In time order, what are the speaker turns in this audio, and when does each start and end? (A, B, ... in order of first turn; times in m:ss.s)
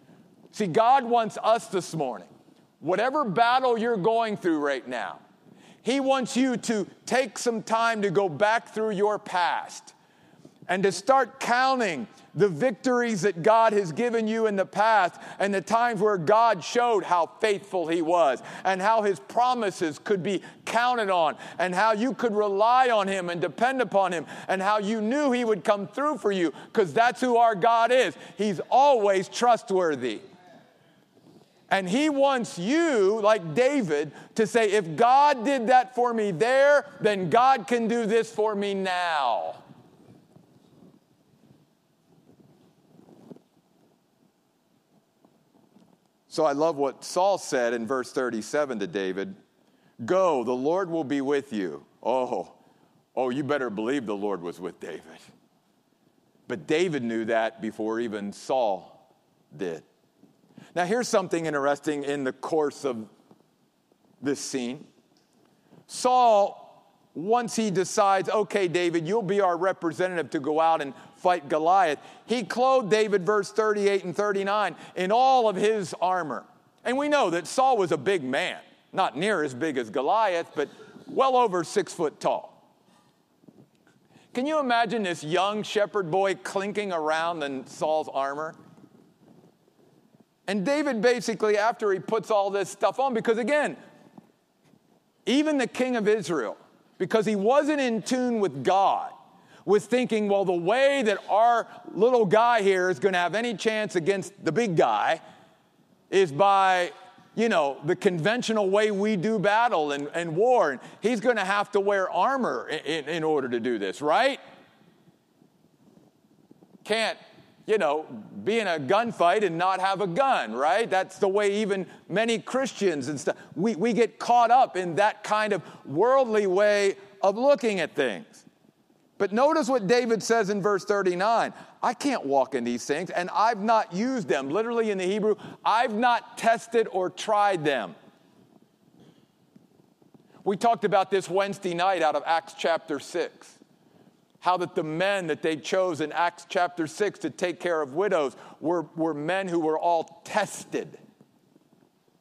0:00.5-0:05.2 A
0:05.8-0:09.9 A
0:10.7-0:30.2 A
0:31.7-0:39.6 A
0:46.3-0:49.4 A
0:50.0-0:52.6 A
0:53.2-0:55.3 A
0:56.5-0:59.0 A
0:59.5-0:59.9 A
1:00.8-1:03.1 A
1:04.2-1:04.8 A
1:05.9-1:22.6 A
1:24.3-1:28.6 A
1:30.5-1:33.8 A
1:35.3-1:39.1 A
1:39.6-1:45.2 A
1:46.1-1:54.4 A
1:56.8-2:08.4 A
2:09.2-2:18.0 A
2:20.4-2:23.6 A
2:24.4-2:31.0 A